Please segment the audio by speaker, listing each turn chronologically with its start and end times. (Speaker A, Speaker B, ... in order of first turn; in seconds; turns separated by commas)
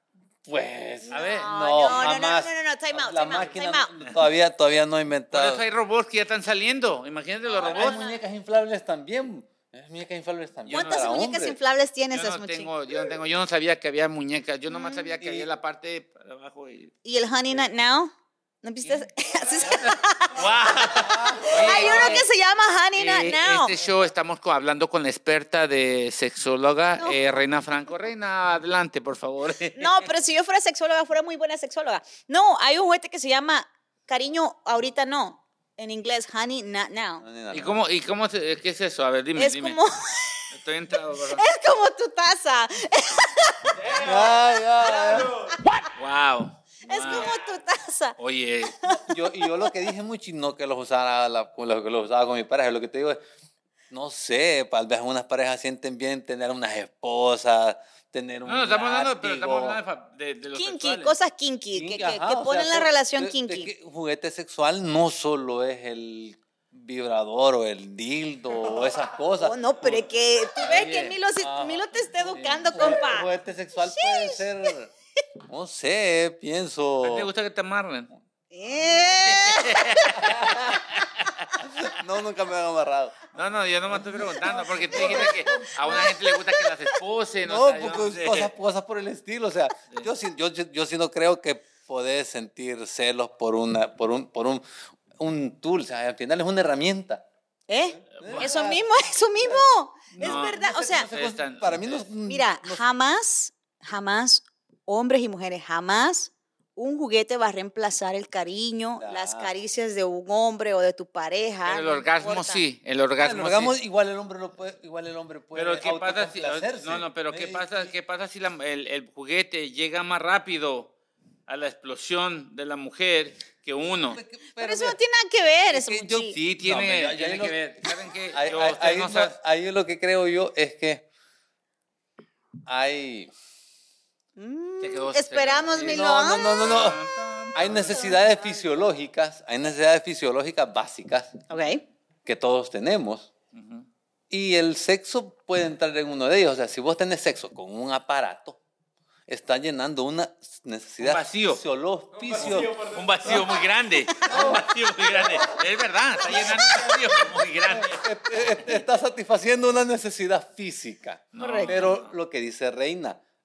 Speaker A: 0.5-5.6, Speaker B: 1.1-3.9, Speaker C: 1.1-2.2, Speaker C: 5.3-8.0, Speaker B: 7.5-8.2, Speaker A: 7.6-11.6, Speaker B: 10.7-12.7, Speaker C: 10.7-11.0, Speaker C: 12.1-16.9, Speaker B: 14.7-15.1, Speaker A: 15.2-15.5, Speaker B: 17.0-20.4, Speaker C: 19.7-22.2, Speaker A: 21.0-21.8, Speaker B: 21.4-23.8, Speaker C: 22.9-30.1, Speaker B: 29.8-37.2, Speaker A: 37.2-37.8, Speaker C: 37.5-39.8, Speaker B: 39.4-40.4, Speaker C: 40.5-41.4, Speaker B: 41.3-44.1, Speaker A: 43.9-45.4, Speaker C: 46.0-47.3, Speaker B: 46.9-48.2, Speaker C: 48.2-48.8, Speaker B: 48.8-49.9, Speaker A: 49.0-53.2, Speaker A: 53.9-59.8, Speaker C: 58.4-61.1, Speaker B: 60.5-63.7, Speaker A: 61.7-70.0, Speaker B: 69.4-74.4, Speaker C: 70.6-71.2, Speaker A: 71.4-74.9, Speaker A: 75.5-77.3, Speaker C: 77.0-78.1, Speaker B: 78.5-80.2, Speaker C: 79.2-81.9, Speaker A: 80.2-80.6, Speaker A: 81.6-83.2, Speaker C: 83.3-88.5, Speaker A: 83.9-86.3, Speaker A: 87.5-94.6, Speaker A: 95.2-97.2, Speaker B: 97.7-101.1, Speaker C: 98.2-98.5, Speaker A: 98.2-98.8, Speaker A: 99.5-102.8, Speaker C: 100.2-102.1, Speaker B: 102.2-112.6, Speaker A: 109.0-109.5, Speaker C: 111.6-113.8, Speaker A: 113.2-117.9, Speaker C: 115.5-120.9, Speaker C: 121.5-124.2, Speaker A: 124.1-125.0, Speaker B: 124.6-126.4, Speaker A: 125.7-127.6, Speaker C: 126.3-129.4, Speaker A: 128.3-131.1, Speaker A: 132.7-133.3, Speaker B: 134.4-136.7, Speaker C: 134.8-138.1, Speaker A: 135.8-137.0, Speaker A: 137.6-141.4, Speaker B: 141.5-141.8, Speaker A: 142.2-143.3, Speaker C: 143.5-143.9, Speaker A: 144.3-148.6, Speaker A: 149.3-153.5, Speaker C: 151.0-151.6, Speaker C: 152.4-158.1, Speaker A: 154.2-154.7, Speaker A: 156.3-156.7, Speaker A: 157.7-163.2, Speaker C: 161.3-162.1, Speaker B: 161.4-161.9